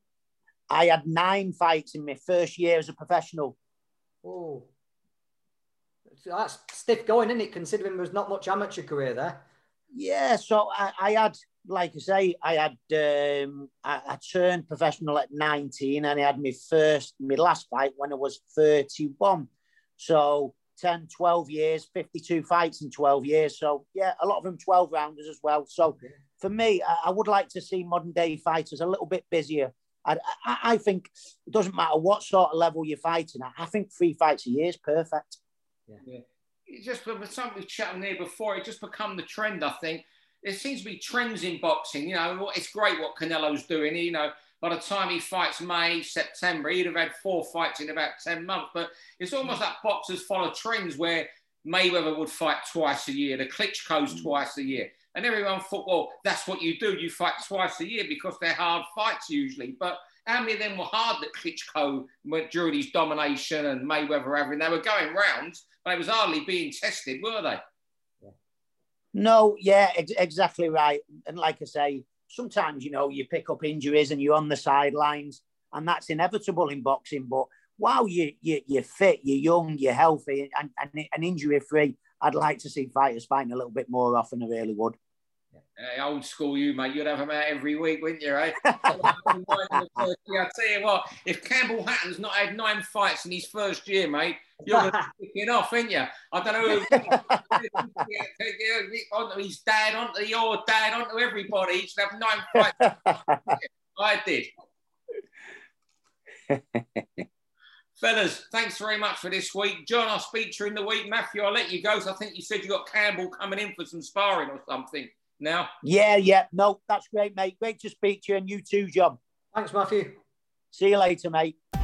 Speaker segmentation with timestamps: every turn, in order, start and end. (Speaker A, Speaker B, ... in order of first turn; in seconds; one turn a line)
Speaker A: 0.7-3.6
Speaker B: 4.2-4.7
Speaker B: 6.2-9.4
Speaker A: 9.9-35.4
Speaker C: 36.0-67.6
Speaker A: 69.2-85.0
Speaker C: 85.8-104.5
Speaker A: 88.7-89.7
Speaker B: 94.7-95.1
Speaker A: 96.9-97.6
Speaker A: 103.1-103.6
Speaker A: 106.5-107.2
Speaker C: 108.0-115.7
Speaker A: 115.8-119.2
Speaker B: 119.5-120.2
Speaker A: 120.7-121.5